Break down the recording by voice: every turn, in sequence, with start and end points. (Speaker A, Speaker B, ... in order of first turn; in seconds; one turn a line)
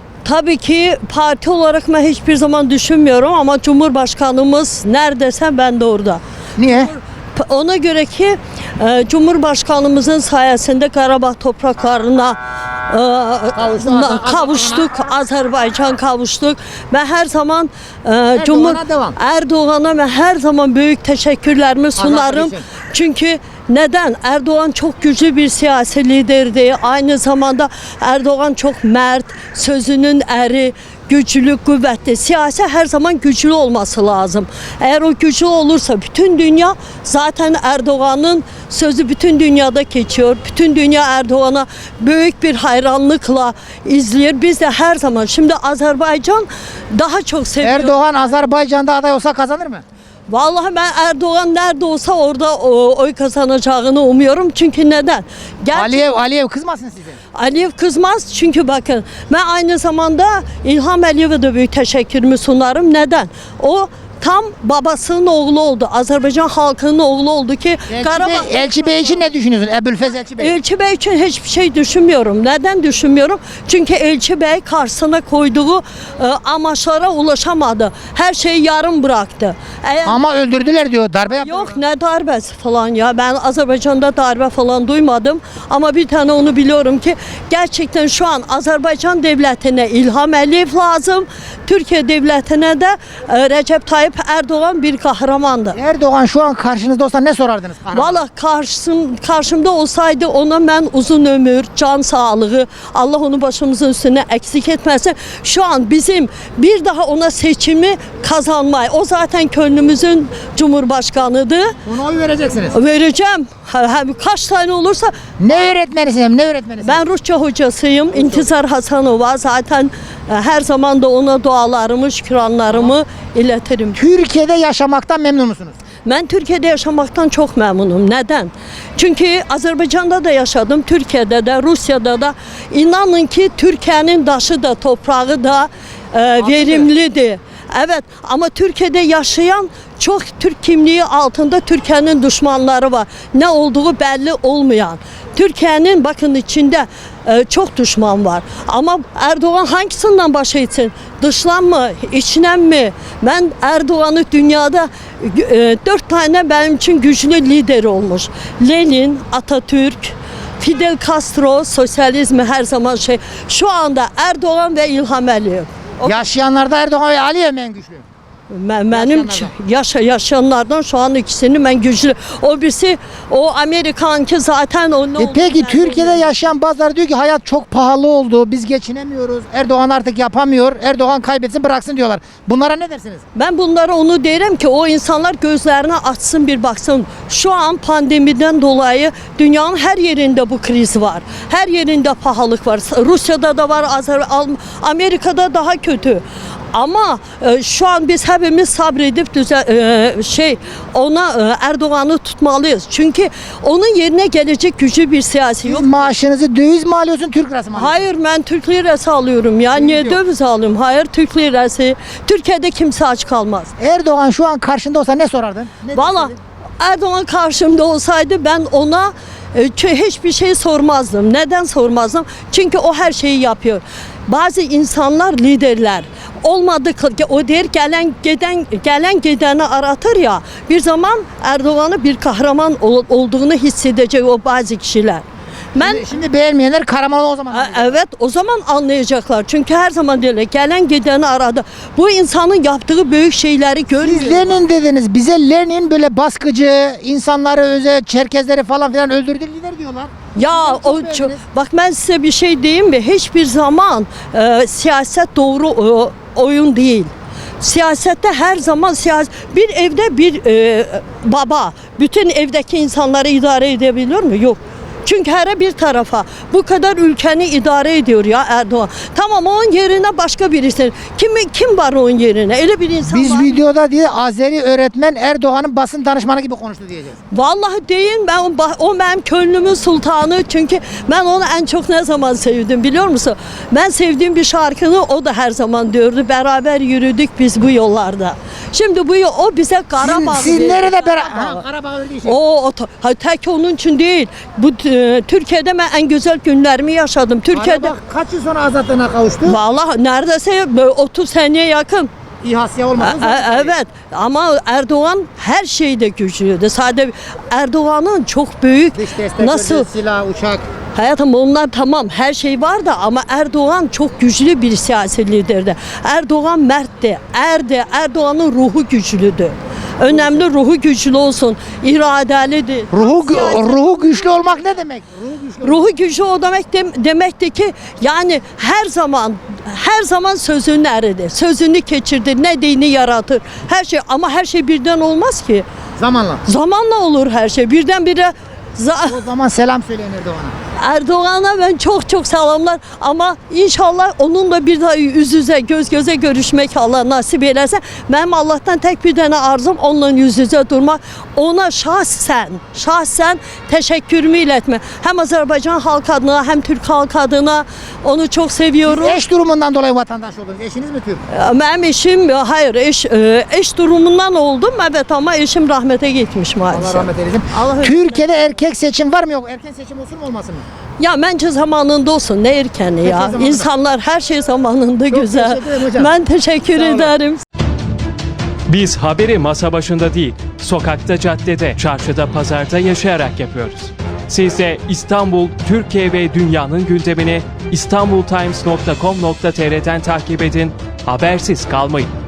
Speaker A: 0.2-48.0
Speaker B: 6.6-6.9
Speaker B: 13.5-15.1
Speaker B: 18.3-19.1
Speaker B: 22.0-22.7
Speaker B: 47.6-49.8
Speaker A: 50.3-56.0
Speaker B: 55.7-57.2
Speaker A: 57.3-69.3
Speaker B: 67.9-70.5
Speaker A: 70.4-80.2
Speaker B: 80.0-81.8
Speaker A: 81.3-95.8
Speaker B: 95.7-98.2
Speaker A: 97.9-111.8
Speaker B: 111.8-112.8
Speaker A: 112.7-115.1
Speaker B: 115.4-117.0
Speaker A: 116.8-124.0
Speaker B: 118.1-118.5
Speaker B: 123.9-125.8
Speaker A: 126.0-166.2
Speaker B: 136.4-136.9
Speaker B: 166.0-168.0
Speaker A: 168.5-176.4
Speaker B: 168.9-169.5
Speaker B: 175.2-183.2
Speaker A: 183.3-206.1
Speaker B: 205.7-208.0
Speaker A: 207.7-213.7
Speaker B: 209.7-210.2
Speaker B: 213.8-216.3
Speaker A: 215.9-235.2
Speaker A: 235.7-236.1
Speaker B: 235.8-238.0
Speaker A: 237.5-244.6
Speaker B: 244.0-251.4
Speaker A: 250.3-273.6
Speaker B: 273.0-277.2
Speaker A: 277.3-291.6
Speaker B: 290.0-292.4
Speaker A: 292.2-297.9
Speaker B: 297.5-299.6
Speaker A: 299.4-302.1
Speaker B: 302.4-303.7
Speaker A: 303.0-309.9
Speaker B: 308.9-310.6
Speaker A: 310.9-324.6
Speaker B: 320.1-320.4
Speaker B: 322.9-325.8
Speaker A: 325.6-335.6
Speaker B: 336.0-336.4
Speaker A: 336.4-339.2
Speaker B: 339.1-340.5
Speaker A: 340.8-359.2
Speaker B: 358.8-361.2
Speaker A: 361.3-368.3
Speaker B: 366.7-370.6
Speaker A: 371.0-377.4
Speaker B: 373.0-373.7
Speaker B: 375.1-376.1
Speaker B: 376.7-377.1
Speaker C: 378.7-392.1